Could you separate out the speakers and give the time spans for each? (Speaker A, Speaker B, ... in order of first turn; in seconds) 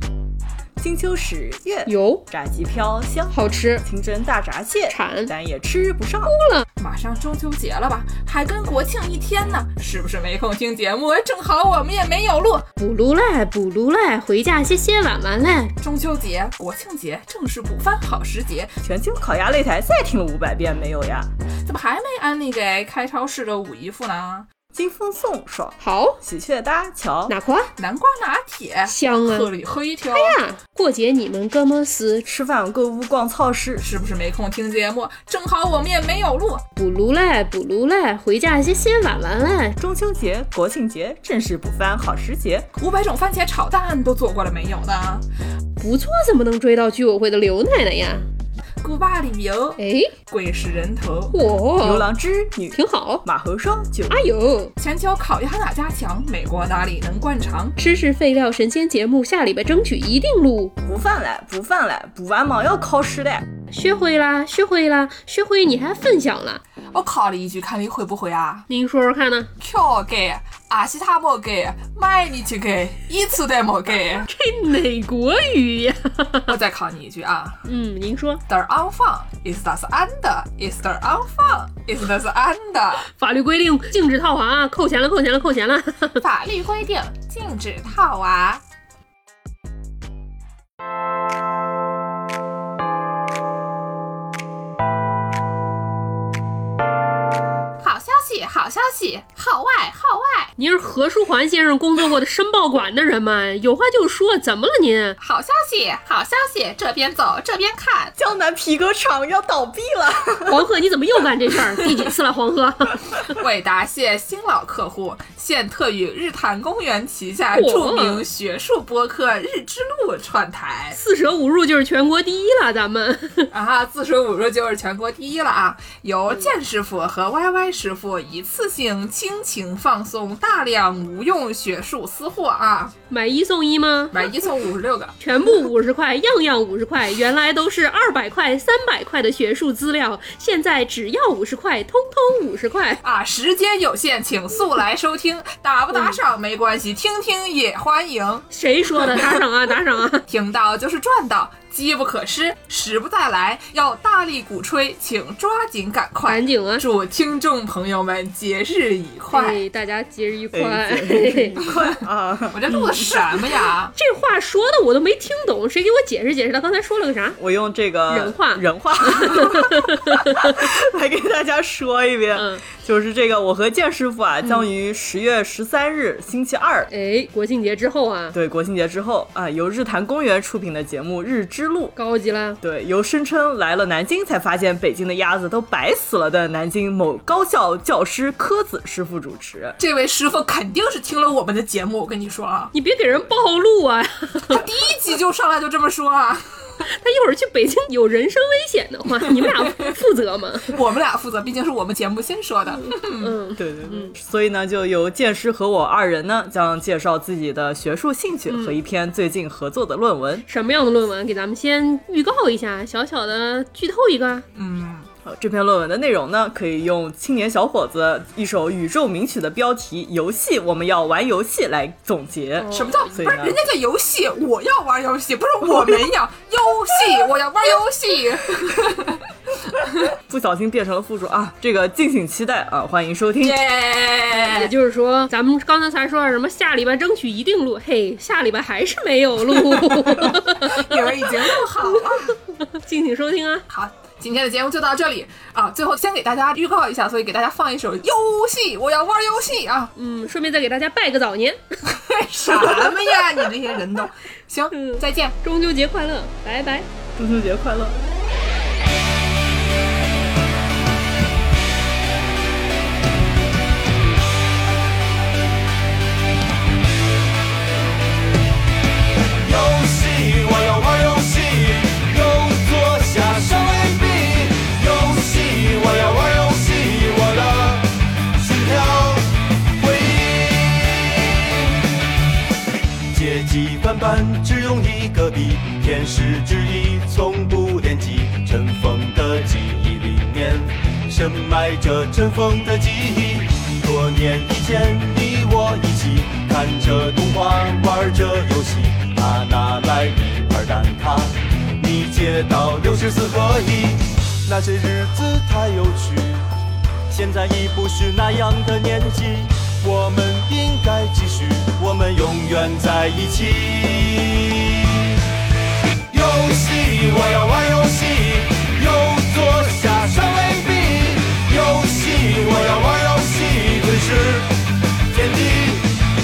Speaker A: 0.8-6.3, 18.8-21.3, 24.7-27.3, 32.2-33.8, 39.8-42.7, 51.8-54.2, 60.8-63.4, 108.2-110.7, 160.5-163.0, 167.4-176.9, 178.3-181.9, 182.6-189.8, 203.6-210.4, 215.2-223.6, 230.2-233.6, 257.1-258.0
Speaker B: 1.9-2.2, 3.3-3.8, 4.9-5.3, 6.2-6.7, 12.8-15.7, 25.8-26.2, 27.3-27.7, 28.9-29.5, 30.1-32.2, 36.8-39.8, 45.8-48.2, 49.8-50.1, 51.3-52.1, 52.7-53.2, 54.1-54.7, 57.8-60.7, 63.7-66.6, 68.7-69.5, 74.3-76.5, 77.6-78.4, 83.1-86.2, 100.6-105.2, 110.5-113.3, 117.5-118.2, 120.9-123.5, 133.1-134.3, 135.2-143.0, 145.9-146.2, 148.5-150.2, 156.2-156.8, 159.3-161.6, 163.9-167.4, 168.1-170.5, 172.3-172.6, 176.9-178.3, 181.9-182.6, 192.7-194.7, 196.9-200.7, 203.0-204.1, 208.5-208.8, 210.4-214.4, 222.6-223.2, 234.3-241.3, 241.8-243.6, 249.9-251.6, 252.4-253.2, 254.7-256.9
Speaker C: 6.8-12.6, 15.8-18.7, 21.6-24.4, 27.8-30.4, 33.8-36.6, 42.8-45.2, 48.8-51.3, 54.8-57.7, 66.9-68.7, 69.6-74.3, 76.5-77.6, 78.5-83.1, 86.2-88.6, 97.8-100.5, 105.2-108.1, 113.3-121.0, 123.5-132.9, 134.1-135.2, 143.0-148.4, 149.0-149.3, 150.3-159.6, 162.5-163.9, 189.8-192.7, 194.5-196.4, 199.3-199.7, 200.7-203.3, 214.5-215.1, 222.7-229.2, 233.4-234.7, 239.5-242.3, 243.7-249.9, 251.9-255.3
Speaker D: 269.4-281.7, 283.1-306.5, 307.1-315.1, 316.1-324.5, 325.1-326.0